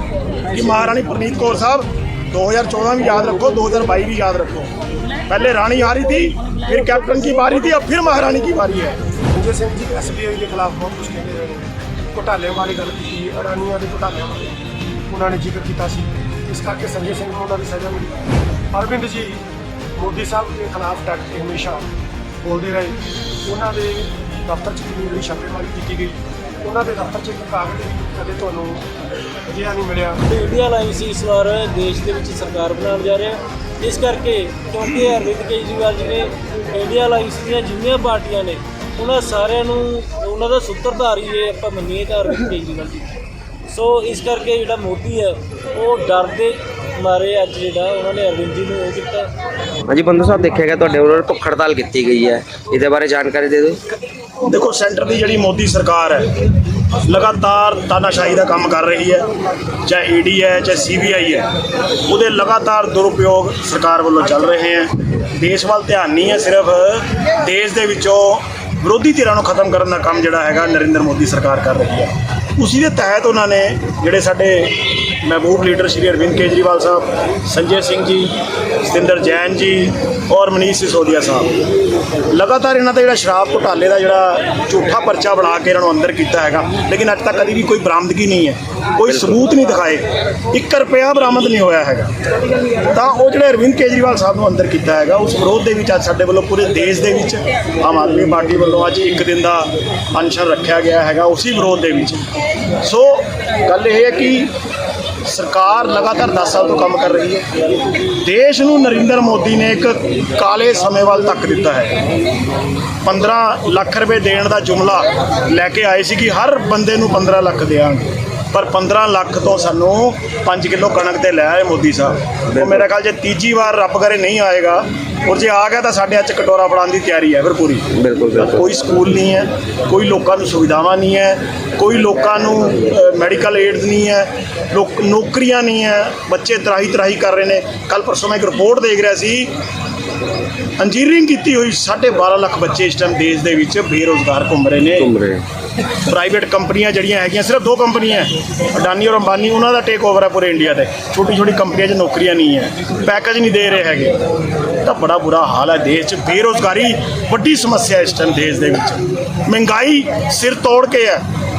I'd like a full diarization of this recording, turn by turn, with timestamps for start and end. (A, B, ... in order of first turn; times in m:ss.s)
0:00.5-0:04.7 A
0:05.3-0:09.0 A
0:09.3-0:14.6 B
0:15.1-0:18.2 B
0:18.7-0:19.4 B
0:20.0-0:21.8 B
0:22.4-0:28.9 B
0:29.5-0:30.2 B
0:30.3-0:43.1 C
0:43.7-0:49.3 C
0:49.9-0:53.8 D
0:54.5-0:56.3 A
0:57.1-0:59.3 A
0:59.9-1:01.5 A
1:02.1-1:14.7 A
1:15.2-1:18.3 A
1:18.8-1:21.5 A
1:22.3-1:32.1 A
1:29.1-1:29.4 D
1:32.9-1:42.2 A
1:42.8-1:44.5 A
1:45.3-1:47.4 A
1:48.2-1:52.0 A
1:53.0-2:07.9 A
2:02.5-2:02.9 D
2:07.9-2:08.7 D
2:08.4-2:19.5 A
2:20.8-2:25.1 A
2:25.0-2:25.4 D
2:26.1-2:34.2 A
2:34.8-2:41.2 A